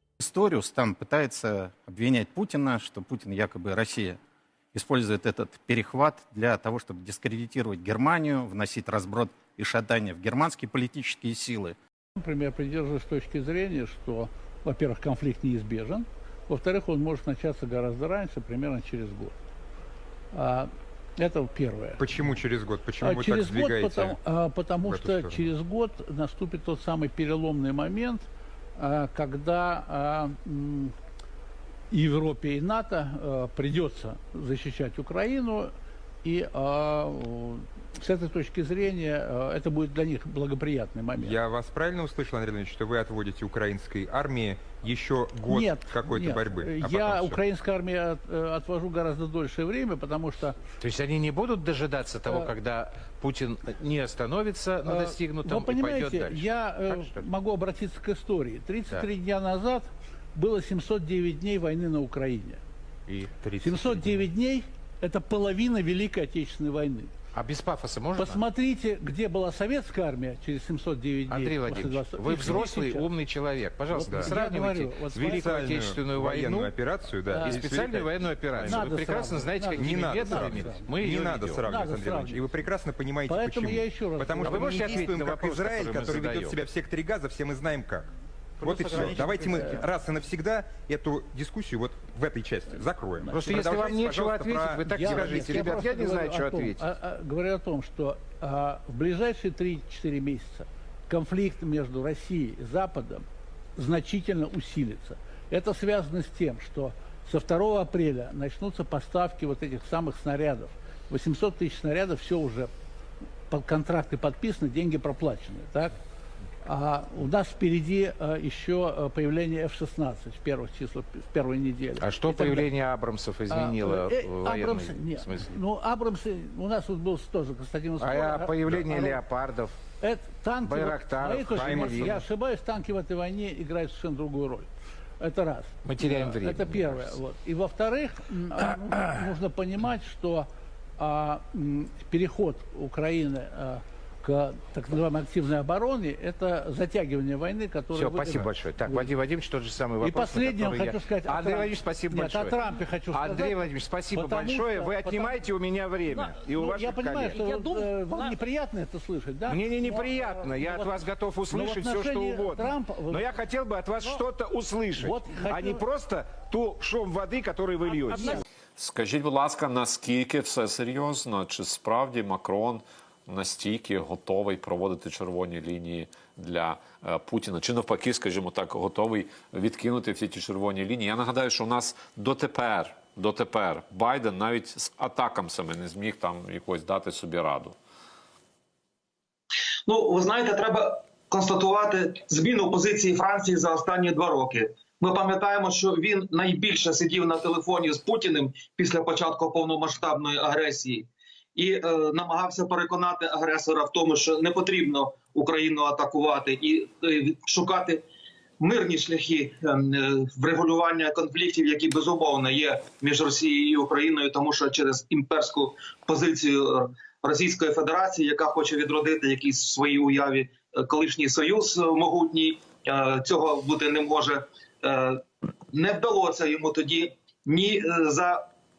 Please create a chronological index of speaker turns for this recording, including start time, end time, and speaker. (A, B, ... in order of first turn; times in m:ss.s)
0:00.2-0:04.2 A
0:04.7-0:11.8 A
0:12.2-0:19.4 B
0:20.3-0:22.1 B
0:22.0-0:24.2 C
0:23.0-0:30.9 B
0:24.8-0:25.5 C
0:31.9-0:41.4 B
0:41.2-0:47.4 C
0:45.5-0:50.6 B
0:50.8-0:57.3 D
0:54.8-1:02.6 B
1:03.1-1:04.3 D
1:03.6-1:07.1 B
1:07.3-1:08.4 D
1:08.1-1:13.1 B
1:11.3-1:16.7 D
1:13.9-1:15.6 B
1:14.0-1:14.4 C
1:15.1-1:28.1 C
1:17.3-1:17.6 B
1:17.4-1:21.6 D
1:18.6-1:21.0 B
1:21.6-1:22.7 B
1:23.2-1:24.9 B
1:24.4-1:26.7 D
1:28.6-1:35.7 C
1:28.8-1:29.8 B
1:28.8-1:29.3 D
1:29.0-1:29.2 A
1:33.2-1:33.8 B
1:33.3-1:36.9 D
1:34.9-1:43.2 B
1:43.8-1:52.7 B
1:53.5-1:55.9 B
1:56.6-2:02.7 B
2:02.0-2:05.6 D
2:03.5-2:09.2 B
2:08.0-2:09.7 D
2:10.0-2:14.7 B
2:10.6-2:12.1 D
2:11.5-2:12.2 C
2:15.2-2:29.1 B
2:15.8-2:17.2 D
2:27.9-2:37.4 D
2:30.0-2:35.4 B
2:36.6-2:43.3 B
2:39.5-2:48.4 D
2:44.9-2:45.8 B
2:48.8-3:07.8 E
3:09.8-3:28.0 F
3:28.6-3:48.4 F